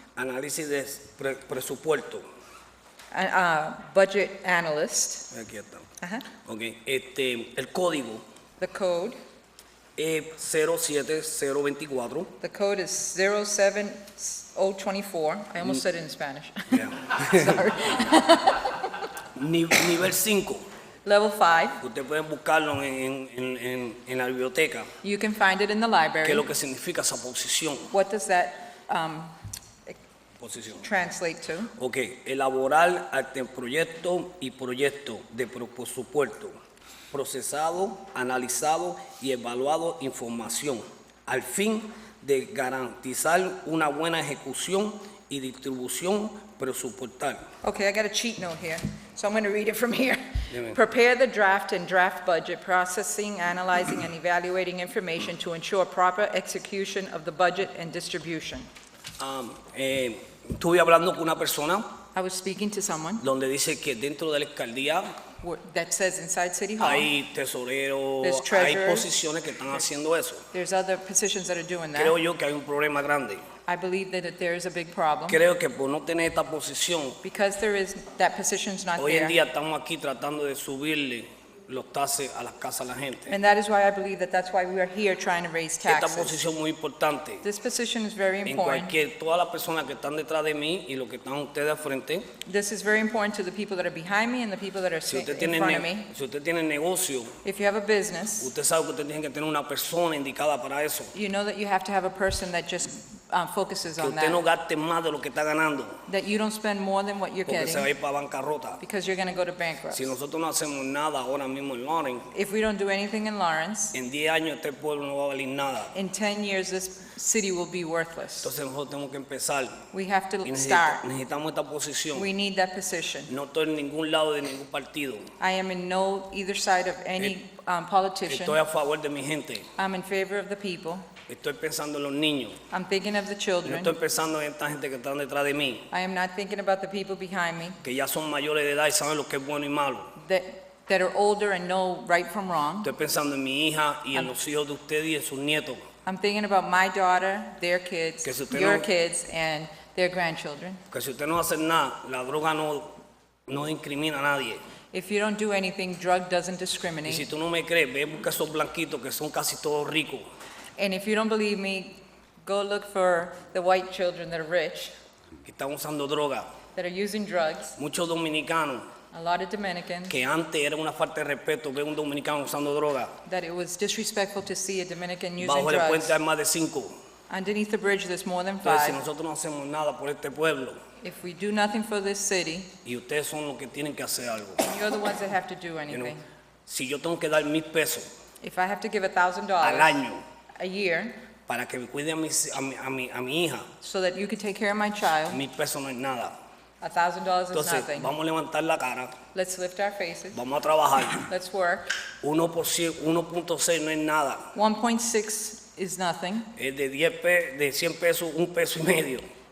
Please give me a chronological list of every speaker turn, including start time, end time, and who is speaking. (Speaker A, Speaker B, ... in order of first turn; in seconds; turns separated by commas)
Speaker A: 0.1-2.2, Speaker B: 3.1-5.3, Speaker A: 5.3-5.8, Speaker B: 6.0-6.3, Speaker A: 6.5-8.2, Speaker B: 8.6-9.2, Speaker A: 10.0-12.3, Speaker B: 12.4-18.9, Speaker A: 16.7-17.6, Speaker A: 19.4-20.6, Speaker B: 21.1-21.8, Speaker A: 21.8-24.9, Speaker B: 25.0-26.4, Speaker A: 26.2-27.9, Speaker B: 27.9-29.3, Speaker A: 30.4-30.9, Speaker B: 30.8-31.7, Speaker A: 31.8-36.5, Speaker A: 37.1-47.4, Speaker B: 47.6-58.7, Speaker A: 50.5-50.8, Speaker A: 59.2-61.9, Speaker B: 62.1-63.2, Speaker A: 63.2-65.1, Speaker B: 65.4-67.1, Speaker A: 66.8-70.5, Speaker B: 68.2-69.1, Speaker B: 70.5-72.2, Speaker A: 72.0-73.5, Speaker B: 73.7-75.4, Speaker A: 75.3-77.2, Speaker B: 77.2-79.4, Speaker A: 79.0-83.4, Speaker B: 83.3-86.4, Speaker A: 85.8-87.4, Speaker B: 87.4-88.9, Speaker A: 88.5-92.3, Speaker B: 92.5-96.1, Speaker A: 95.1-97.3, Speaker B: 97.4-98.5, Speaker A: 98.4-101.1, Speaker B: 101.1-104.4, Speaker A: 104.0-106.0, Speaker B: 106.1-107.9, Speaker A: 107.5-108.8, Speaker B: 108.8-110.1, Speaker A: 109.9-112.3, Speaker B: 112.3-114.0, Speaker A: 113.9-115.9, Speaker B: 115.9-118.5, Speaker A: 118.4-119.8, Speaker B: 119.9-121.0, Speaker A: 120.4-122.3, Speaker B: 122.1-123.3, Speaker A: 123.3-125.3, Speaker B: 125.4-128.6, Speaker A: 128.3-129.7, Speaker B: 129.8-131.1, Speaker A: 131.3-132.6, Speaker B: 132.7-133.9, Speaker A: 133.7-135.9, Speaker B: 135.9-137.8, Speaker A: 137.8-140.1, Speaker B: 140.2-142.9, Speaker A: 142.8-145.8, Speaker B: 146.1-150.8, Speaker A: 148.2-148.9, Speaker A: 150.9-154.6, Speaker B: 154.9-157.3, Speaker A: 157.1-160.2, Speaker B: 160.8-164.9, Speaker A: 165.4-166.5, Speaker B: 166.8-167.7, Speaker A: 167.8-168.9, Speaker B: 169.1-170.2, Speaker A: 170.1-173.2, Speaker B: 173.2-176.2, Speaker A: 175.4-176.9, Speaker B: 177.3-179.0, Speaker A: 178.6-180.8, Speaker B: 181.0-182.7, Speaker A: 182.8-184.6, Speaker B: 184.6-186.2, Speaker A: 186.7-188.1, Speaker B: 188.4-190.0, Speaker A: 189.6-190.2, Speaker B: 190.6-191.2, Speaker A: 191.5-193.7, Speaker B: 193.8-195.4, Speaker A: 195.3-196.4, Speaker B: 196.8-198.1, Speaker A: 197.5-199.2, Speaker B: 199.3-200.4, Speaker A: 200.3-201.3, Speaker B: 201.1-201.9, Speaker A: 202.2-204.5, Speaker B: 204.6-206.5, Speaker A: 206.6-209.2